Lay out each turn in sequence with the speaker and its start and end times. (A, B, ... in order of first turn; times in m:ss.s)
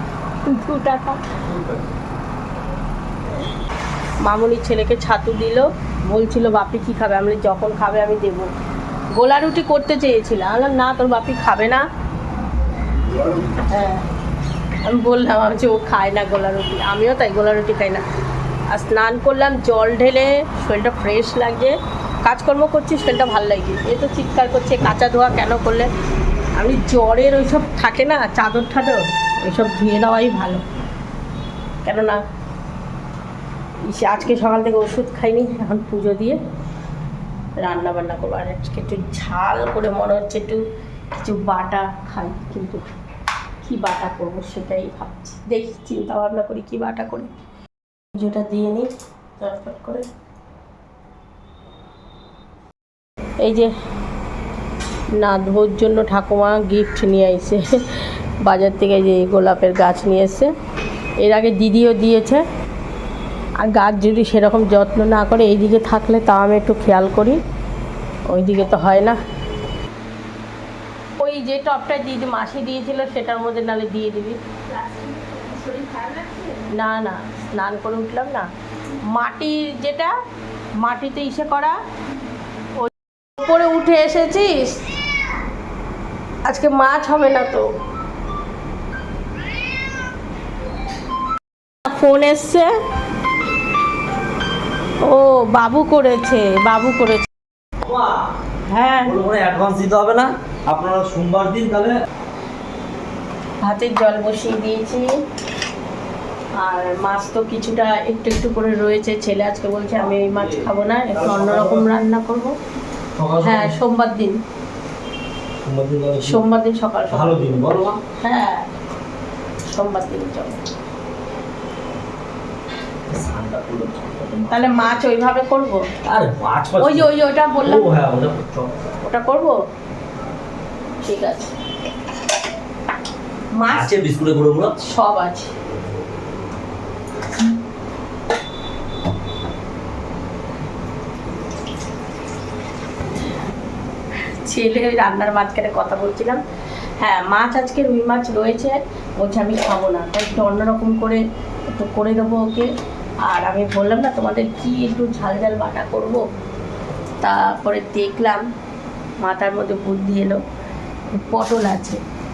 0:00.4-0:01.4 A
0:01.5-0:01.8 B
0:04.2-0:08.5 A
0:09.1-0:11.8 A
0:13.5-0:14.0 A
0:14.8-0:18.0 A
0:18.7-0:25.9 A
0:26.6-0:30.6 A
0:31.8-0:32.2 A
0:33.8-0:36.4 A
0:37.6-0:40.6 A
0:41.1-0:42.8 A
0:43.6-0:47.3 A
0:48.1-0:50.1 A
0:53.4-0:53.7 A
0:55.2-1:00.5 A
1:01.2-1:02.4 A
1:03.6-1:07.4 A
1:08.3-1:09.2 A
1:11.2-1:18.5 A
1:19.1-1:20.2 A
1:20.8-1:21.8 A
1:22.8-1:24.9 A
1:26.4-1:27.7 A
1:31.8-1:32.7 A
1:35.0-1:37.3 A
1:37.8-1:38.2 B
1:38.7-1:39.2 A
1:39.0-1:41.9 B
1:43.6-1:45.1 A
1:46.6-1:52.6 A
1:50.2-1:51.9 B
1:53.2-1:53.8 B
1:53.4-1:54.4 A
1:55.6-1:56.4 B
1:56.2-1:58.7 A
1:57.1-1:58.0 B
1:59.6-2:00.6 A
2:03.1-2:04.9 B
2:04.5-2:05.9 A
2:06.0-2:07.1 B
2:06.8-2:07.9 A
2:07.6-2:08.7 B
2:09.0-2:09.6 A
2:11.0-2:11.5 A
2:13.5-2:14.0 A
2:13.7-2:14.7 B
2:14.8-2:15.5 A
2:24.4-2:26.4 A
2:27.0-2:32.7 A
2:33.2-2:36.2 A
2:37.2-2:38.4 A
2:39.2-2:40.4 A
2:41.1-2:42.0 A